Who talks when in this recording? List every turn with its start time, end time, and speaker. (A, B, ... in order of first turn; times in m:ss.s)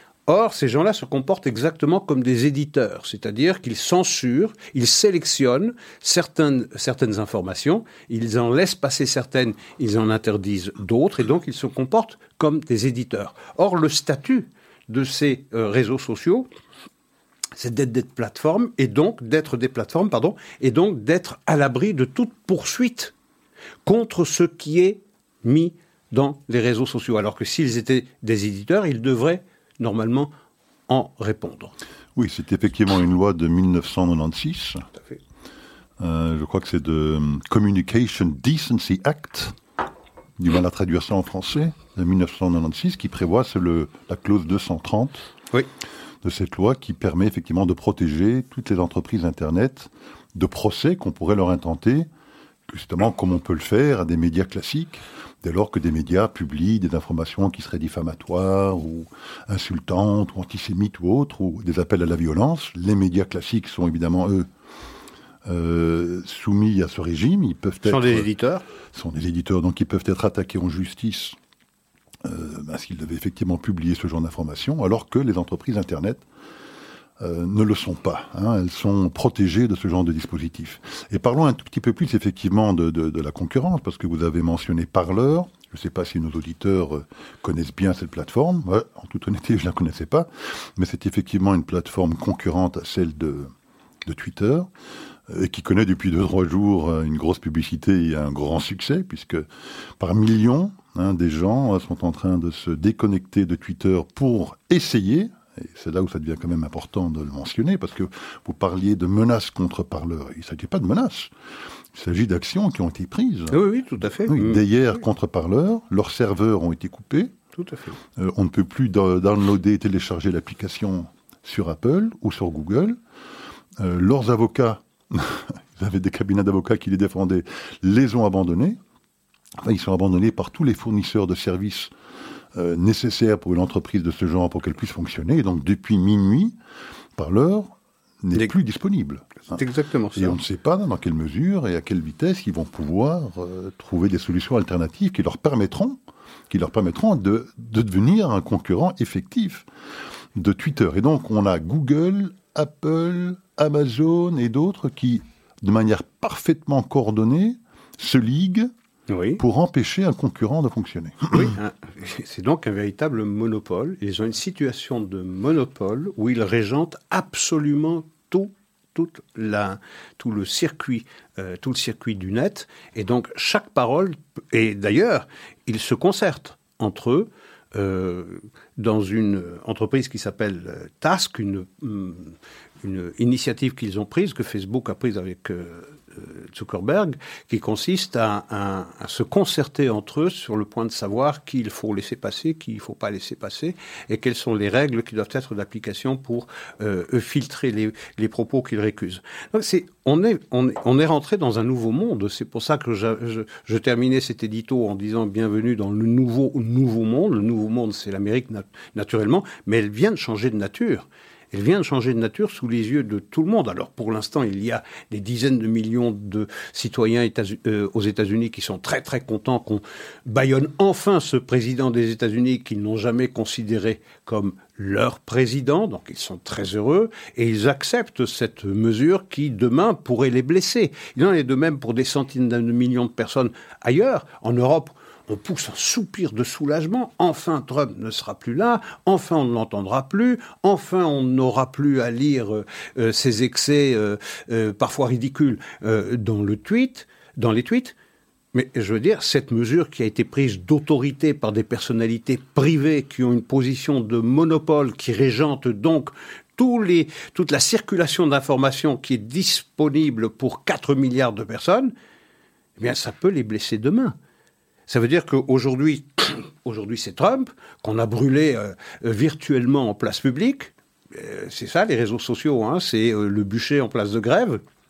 0:00.3-0:16.5 A
0:17.6-0:23.1 A
0:23.8-0:30.3 A
0:30.9-0:31.7 A
0:32.2-0:34.8 B
0:36.0-0:39.6 B
0:40.4-0:45.2 B
0:46.2-0:52.1 B
0:52.7-1:04.5 B
1:05.4-1:08.3 B
1:07.8-1:08.6 A
1:08.9-1:11.4 B
1:12.2-1:16.2 B
1:17.2-1:33.5 B
1:34.0-1:34.7 B
1:35.3-1:39.5 B
1:40.0-1:51.3 B
1:51.9-1:53.6 B
1:53.5-1:54.6 A
1:54.2-1:57.3 B
1:57.6-1:58.0 A
1:58.2-2:03.0 B
2:03.8-2:08.8 B
2:09.6-2:11.9 B
2:12.5-2:16.6 B
2:17.2-2:19.6 B
2:19.5-2:20.4 A
2:20.1-2:26.0 B
2:26.5-2:29.7 B
2:30.3-2:38.7 B
2:39.1-2:39.4 A
2:39.4-2:41.5 B
2:41.3-4:07.9 A
4:08.5-4:21.9 A
4:22.8-4:24.1 A
4:24.9-4:34.6 A